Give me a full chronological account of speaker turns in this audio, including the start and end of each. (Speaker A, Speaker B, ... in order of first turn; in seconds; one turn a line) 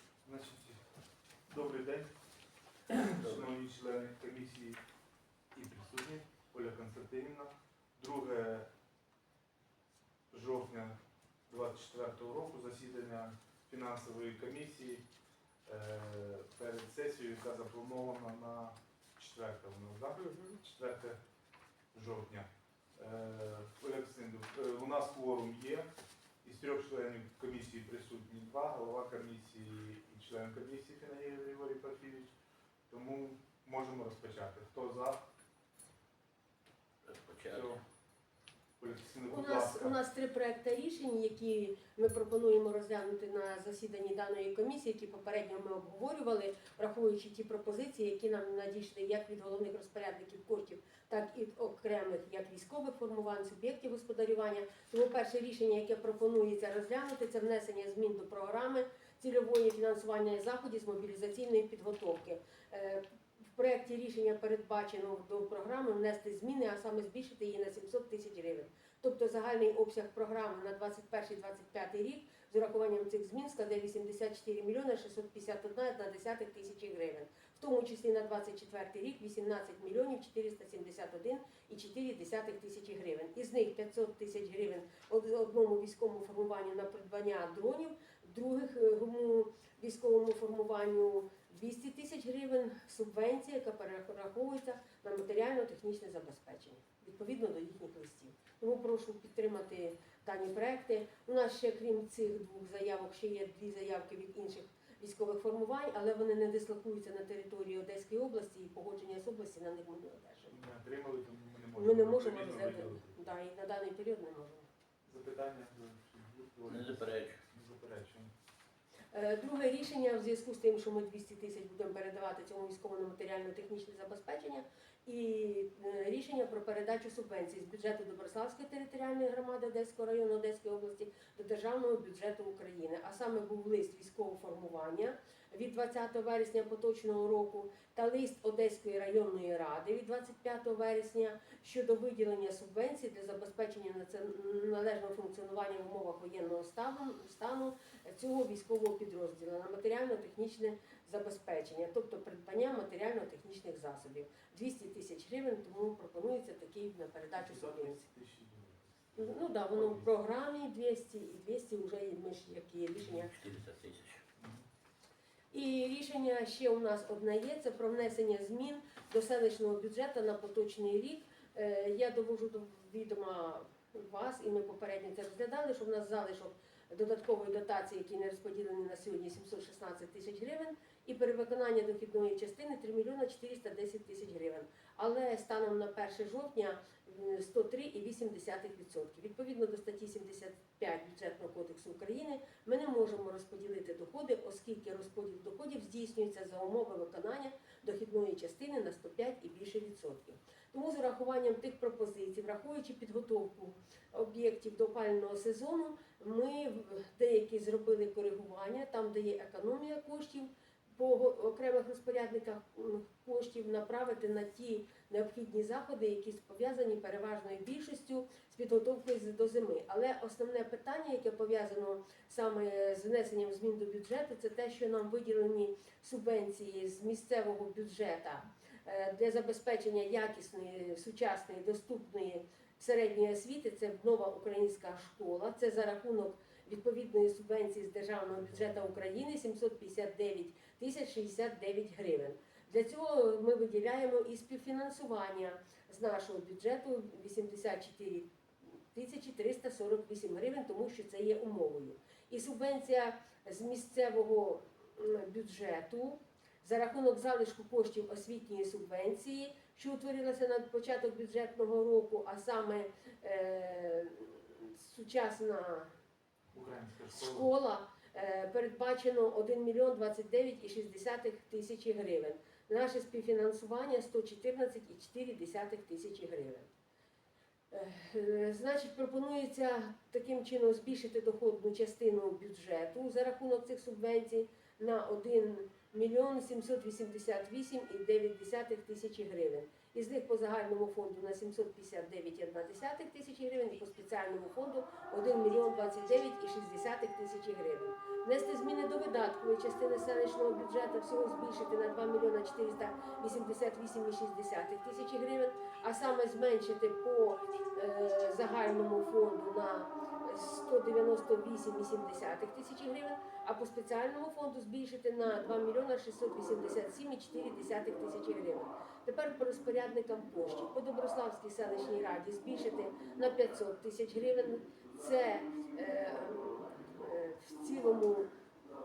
Speaker A: 0.2-0.8
Speaker A: 1.5-2.1
Speaker A: 2.9-4.8
Speaker B: 3.0-3.5
Speaker A: 5.5-8.7
Speaker A: 10.3-11.0
Speaker A: 11.5-15.0
Speaker A: 15.7-21.2
Speaker C: 20.1-20.6
Speaker A: 21.9-25.9
Speaker A: 26.4-32.3
Speaker A: 32.9-35.3
Speaker B: 37.0-37.8
Speaker A: 37.5-37.8
Speaker A: 38.8-40.0
Speaker C: 39.2-63.0
Speaker C: 63.5-110.6
Speaker A: 110.5-113.3
Speaker C: 111.7-114.7
Speaker A: 115.0-118.3
Speaker B: 116.7-117.4
Speaker C: 119.1-158.0
Speaker A: 157.3-160.1
Speaker C: 159.2-163.3
Speaker B: 163.3-164.2
Speaker A: 164.4-164.6
Speaker C: 165.5-265.9
Speaker A: 238.3-239.0
Speaker A: 266.5-267.5
Speaker C: 267.1-276.7
Speaker C: 277.7-328.3